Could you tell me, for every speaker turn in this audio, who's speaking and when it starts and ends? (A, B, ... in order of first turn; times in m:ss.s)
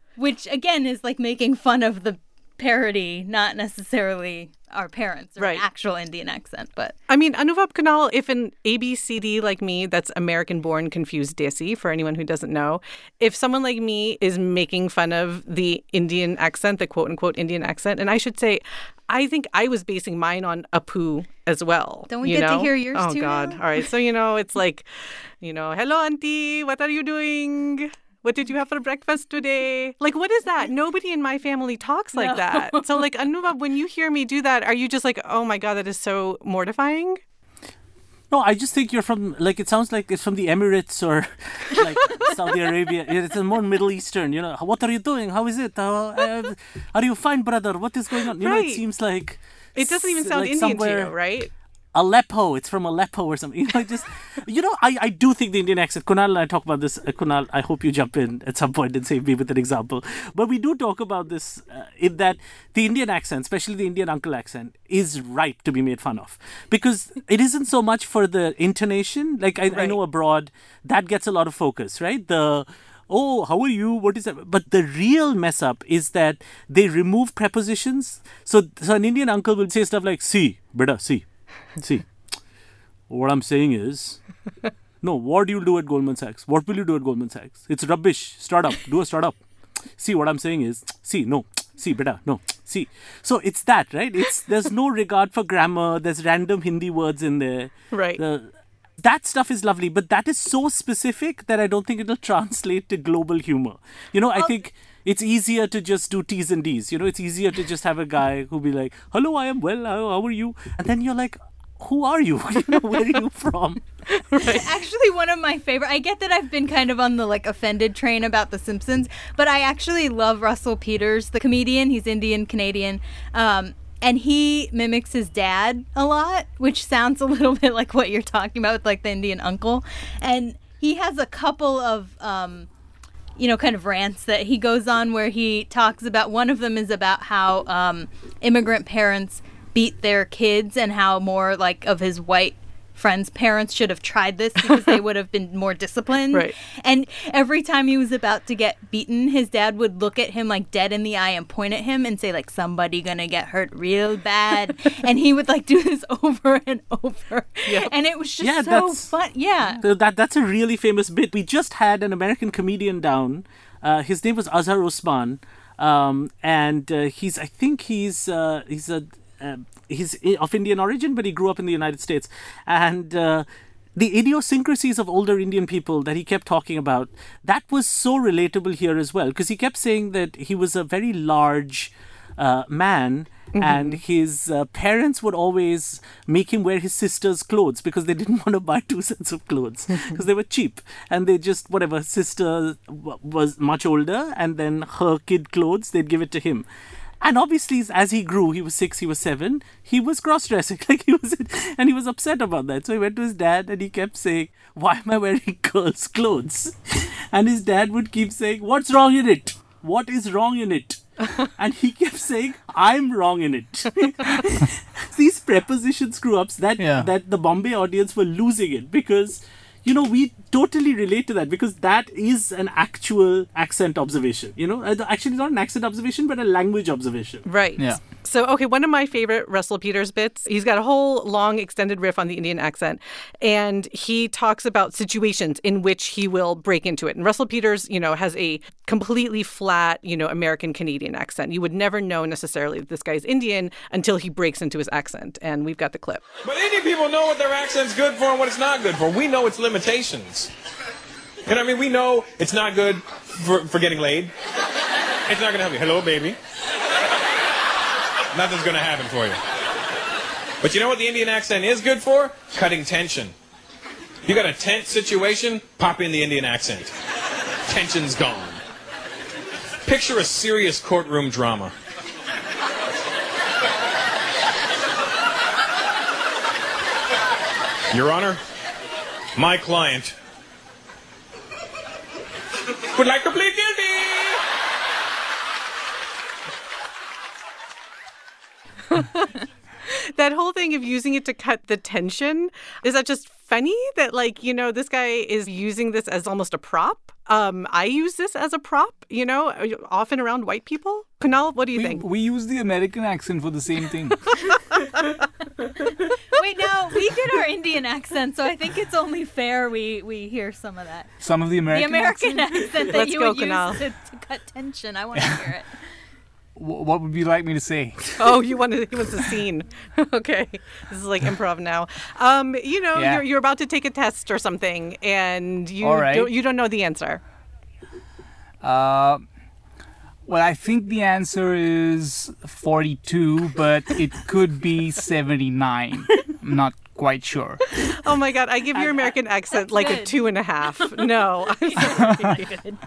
0:00.2-0:06.9 A
0:05.4-0:05.6 B
0:07.1-0:37.2 B
0:22.1-0:23.6 A
0:32.2-0:33.0 A
0:38.3-0:51.2 C
0:48.4-0:48.8 B
0:49.7-0:51.5 B
0:51.9-1:22.2 C
1:09.7-1:10.0 B
1:23.1-1:24.4 C
1:25.0-1:29.4 C
1:30.0-1:38.5 C
1:37.9-1:38.2 B
1:39.0-1:53.8 C
1:54.1-1:54.7 B
1:54.4-2:12.7 A
2:13.4-2:39.8 A
2:37.6-2:37.9 B
2:38.4-2:39.1 C
2:39.8-3:16.6 C
3:03.5-3:04.0 B
3:17.2-3:47.4 C
3:36.8-3:37.1 D
3:47.4-4:06.2 B
3:47.8-3:48.0 D
4:06.4-4:10.5 E
4:11.4-4:14.3 E
4:15.2-4:16.4 E
4:18.3-4:19.4 E
4:20.6-4:23.3 E
4:24.2-4:26.9 E
4:27.7-4:28.6 E
4:29.8-4:31.7 E
4:37.9-4:38.4 E
4:39.3-4:40.2 E
4:42.9-4:44.4 E
4:48.9-5:02.0 B
5:01.7-5:04.4 D
5:06.3-5:15.7 A
5:11.2-5:12.6 D
5:12.8-5:13.8 B
5:15.1-5:15.4 D
5:16.6-5:18.4 D
5:18.2-5:27.2 B
5:22.9-5:23.2 D
5:25.8-5:26.3 D
5:28.6-5:29.2 D
5:30.3-5:37.6 D
5:38.0-5:42.4 B
5:38.8-5:42.8 A